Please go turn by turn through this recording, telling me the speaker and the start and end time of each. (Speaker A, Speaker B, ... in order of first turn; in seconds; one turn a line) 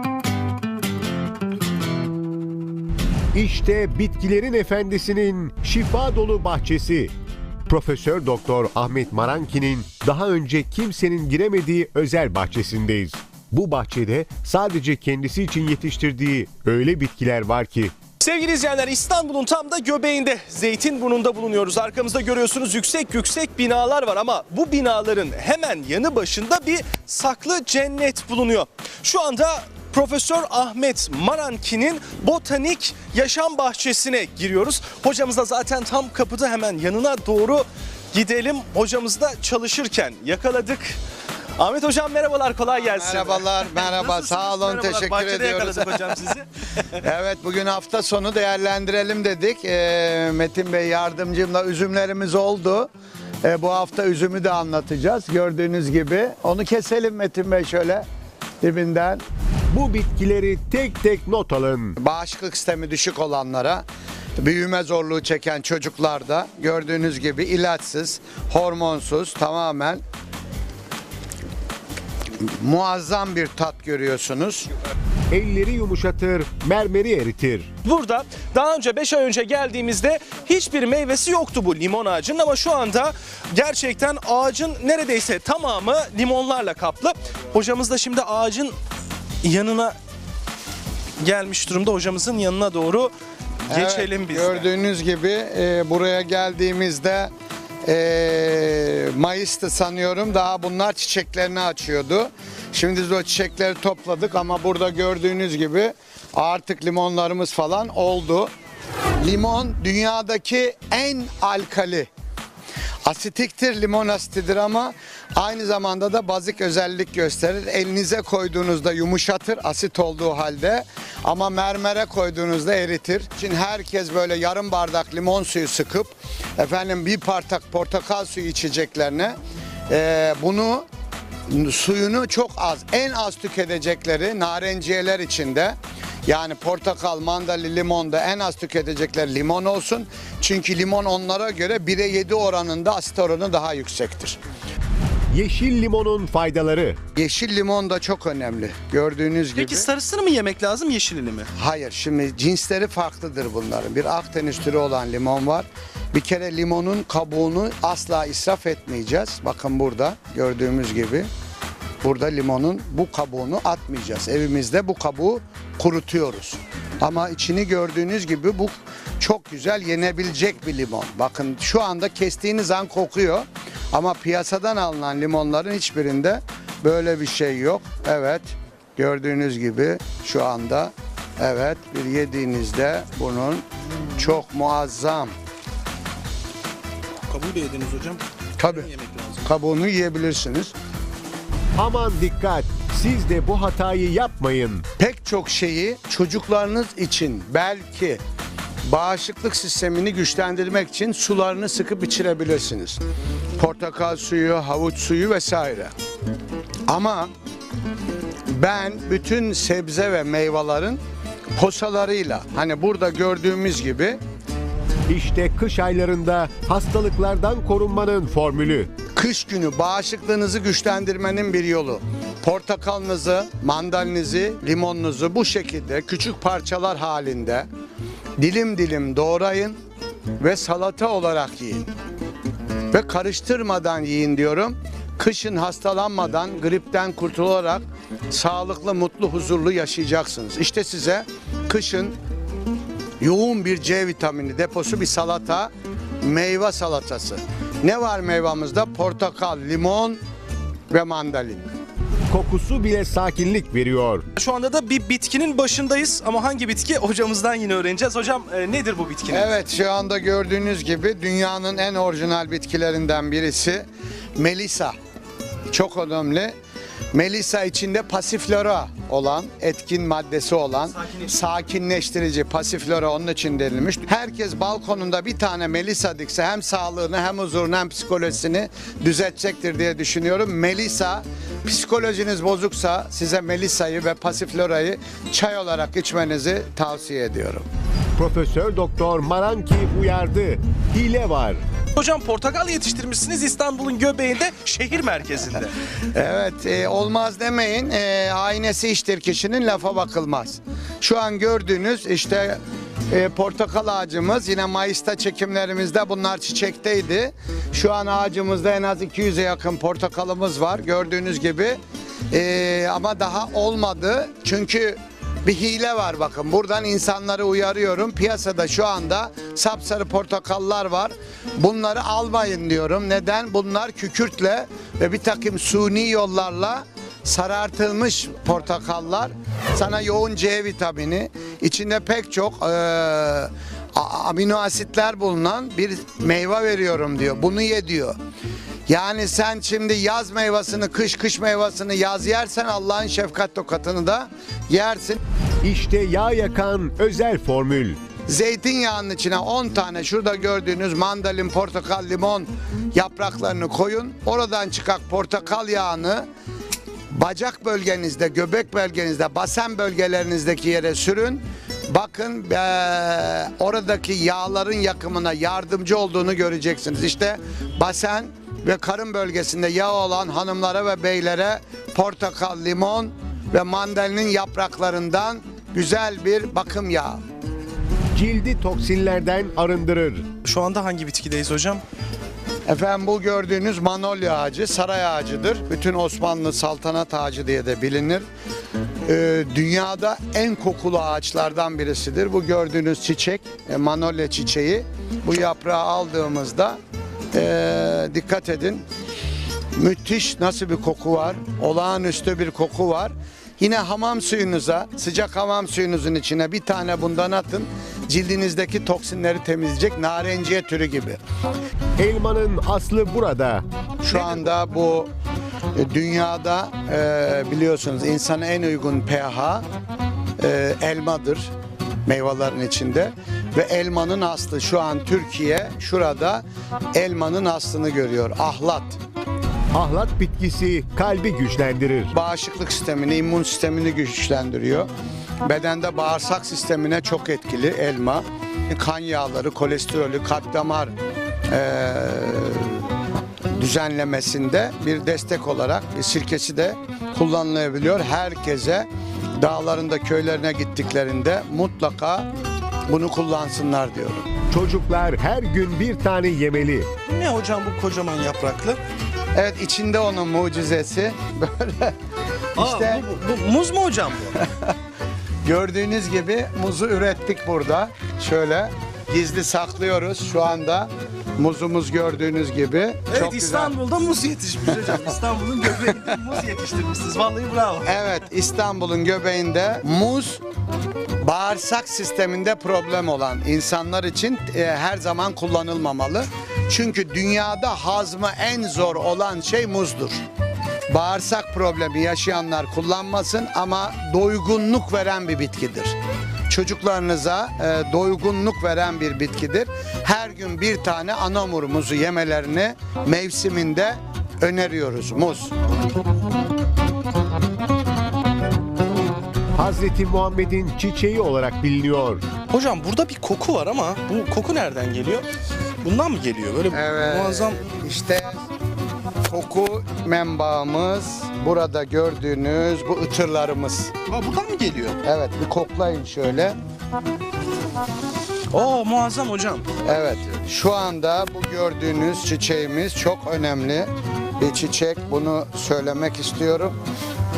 Speaker A: 3.3-7.1
Speaker A: 7.7-17.9
Speaker B: 18.2-41.0
Speaker B: 41.6-46.5
Speaker C: 42.8-46.1
Speaker C: 47.0-52.9
Speaker C: 53.4-58.0
Speaker C: 58.6-59.2
Speaker A: 59.7-62.0
Speaker C: 62.0-63.9
Speaker C: 64.4-70.0
Speaker C: 72.6-74.7
Speaker A: 75.3-77.7
Speaker B: 77.8-88.8
Speaker B: 89.4-90.0
Speaker B: 91.2-93.1
Speaker B: 93.7-94.7
Speaker C: 93.7-97.3
Speaker C: 97.8-108.5
Speaker C: 109.2-112.1
Speaker C: 113.0-129.4
Speaker C: 129.9-130.8
Speaker C: 131.5-144.4
Speaker A: 145.3-147.0
Speaker C: 147.2-149.9
Speaker B: 149.6-151.5
Speaker C: 151.6-161.3
Speaker C: 162.0-183.7
Speaker C: 184.2-185.3
Speaker B: 187.3-189.5
Speaker C: 188.6-188.9
Speaker C: 189.5-190.7
Speaker A: 191.8-194.8
Speaker C: 195.0-198.2
Speaker C: 198.8-203.0
Speaker C: 203.6-205.9
Speaker C: 206.9-207.3
Speaker C: 208.5-211.0
Speaker C: 211.6-214.2
Speaker A: 215.1-218.9
Speaker C: 219.2-227.7
Speaker C: 228.4-229.8
Speaker C: 230.4-231.9
Speaker C: 232.9-242.2
Speaker C: 243.2-245.7
Speaker C: 246.2-250.2
Speaker C: 250.9-251.7
Speaker A: 252.3-254.3
Speaker B: 254.4-259.6
Speaker C: 259.3-265.0
Speaker C: 265.7-266.6
Speaker C: 267.1-287.7
Speaker A: 288.2-291.6
Speaker B: 291.9-295.7
Speaker C: 296.1-302.6
Speaker C: 303.1-311.8
Speaker C: 312.3-338.2
Speaker C: 338.9-345.2
Speaker A: 345.6-348.0
Speaker C: 348.3-356.3
Speaker C: 357.1-377.2
Speaker A: 378.1-380.3
Speaker B: 380.4-381.8
Speaker C: 382.7-388.2
Speaker C: 389.1-396.8
Speaker C: 397.3-398.8
Speaker C: 399.8-411.2
Speaker A: 412.0-413.6
Speaker C: 414.0-415.1
Speaker C: 415.8-419.6
Speaker C: 420.4-421.5
Speaker C: 422.1-429.0
Speaker A: 429.7-432.1
Speaker C: 432.1-434.9
Speaker C: 435.4-440.9
Speaker C: 441.5-442.9
Speaker C: 443.6-452.3
Speaker C: 452.9-454.3
Speaker A: 454.5-456.9
Speaker B: 457.1-458.8
Speaker C: 459.4-461.9
Speaker C: 462.6-463.1
Speaker B: 462.6-464.4
Speaker C: 465.4-473.8
Speaker B: 473.1-478.1
Speaker C: 477.9-480.4
Speaker C: 481.2-490.2
Speaker C: 490.9-496.0
Speaker C: 496.5-505.5
Speaker A: 509.6-512.2
Speaker B: 512.5-515.3
Speaker B: 515.8-517.6
Speaker C: 516.7-518.4
Speaker C: 519.2-523.9
Speaker B: 524.1-525.0
Speaker C: 525.0-526.6
Speaker B: 528.5-529.7
Speaker C: 529.9-536.8